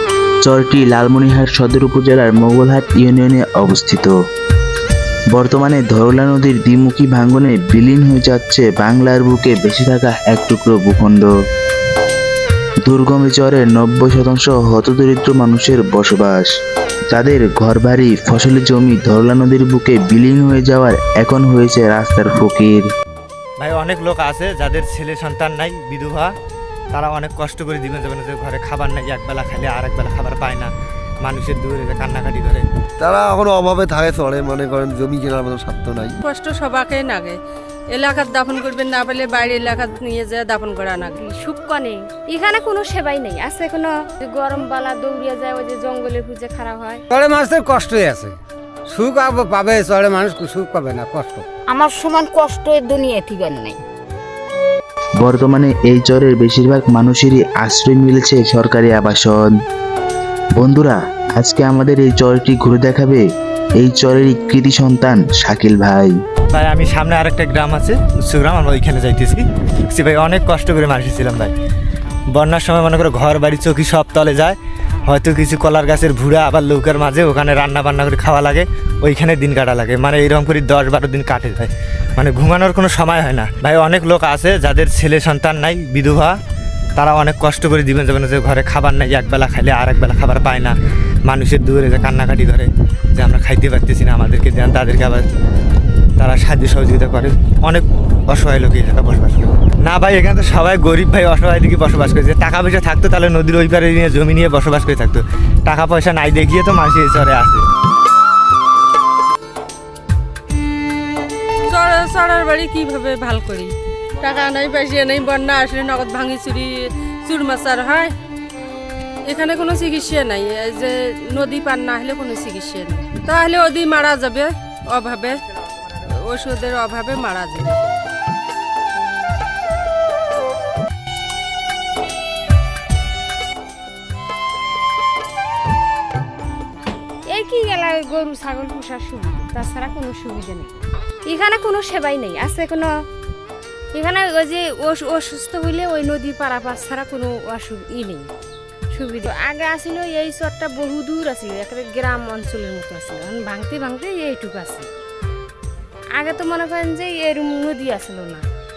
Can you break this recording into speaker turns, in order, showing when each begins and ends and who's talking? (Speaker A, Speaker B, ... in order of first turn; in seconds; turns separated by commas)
Speaker A: 0.4-4.1, Speaker A: 5.3-11.3, Speaker A: 12.8-16.5, Speaker A: 17.1-22.8, Speaker B: 23.6-26.3, Speaker B: 26.9-30.7, Speaker B: 31.2-32.6, Speaker C: 33.0-36.2, Speaker D: 36.2-37.4, Speaker D: 37.9-41.2, Speaker E: 41.2-47.0, Speaker F: 47.1-48.3, Speaker F: 48.9-51.5, Speaker G: 51.7-53.8, Speaker A: 55.2-59.5, Speaker A: 60.5-63.2, Speaker A: 63.8-66.1, Speaker B: 66.5-71.5, Speaker B: 72.3-74.6, Speaker B: 75.1-86.3, Speaker B: 87.0-95.2, Speaker B: 96.2-107.6, Speaker D: 111.7-118.1, Speaker D: 119.3-125.4, Speaker D: 126.2-127.8, Speaker E: 137.3-142.9, Speaker E: 143.9-148.3, Speaker E: 148.9-154.9, Speaker E: 156.2-158.5